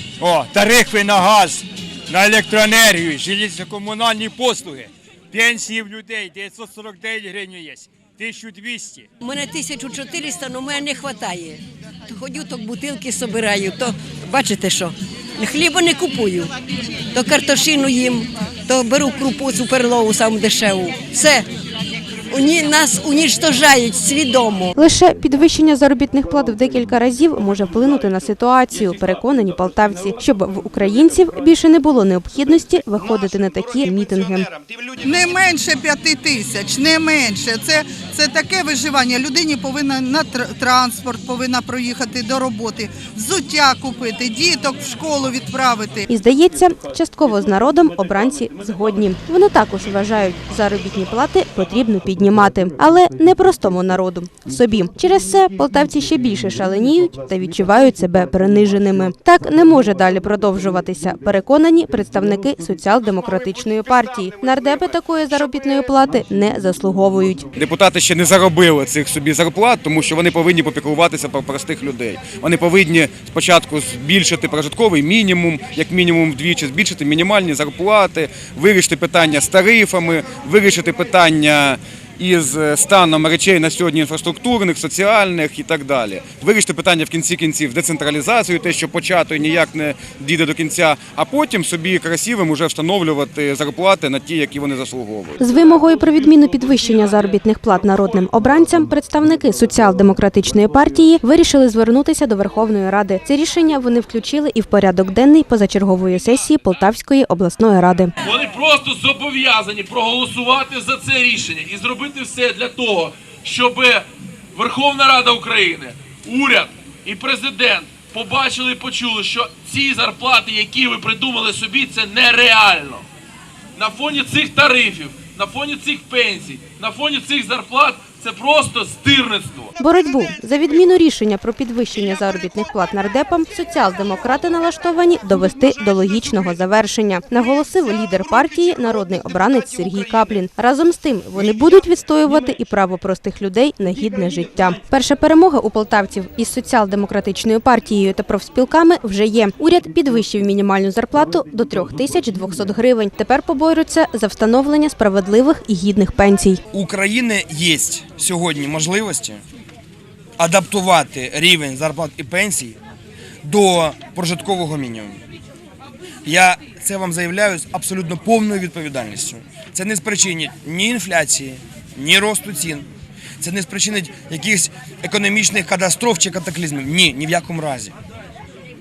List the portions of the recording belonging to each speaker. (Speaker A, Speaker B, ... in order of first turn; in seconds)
Speaker A: 0.2-9.1
Speaker B: 9.2-16.5, 17.1-21.5, 22.3-24.7
Speaker C: 24.8-34.5, 46.1-67.5, 95.4-108.1, 129.8-156.6
Speaker D: 35.3-46.0
Speaker E: 67.6-95.4
Speaker F: 108.2-123.0, 123.8-129.7
Speaker G: 156.7-159.4, 160.4-162.8, 163.4-165.2, 166.2-172.9, 173.4-177.9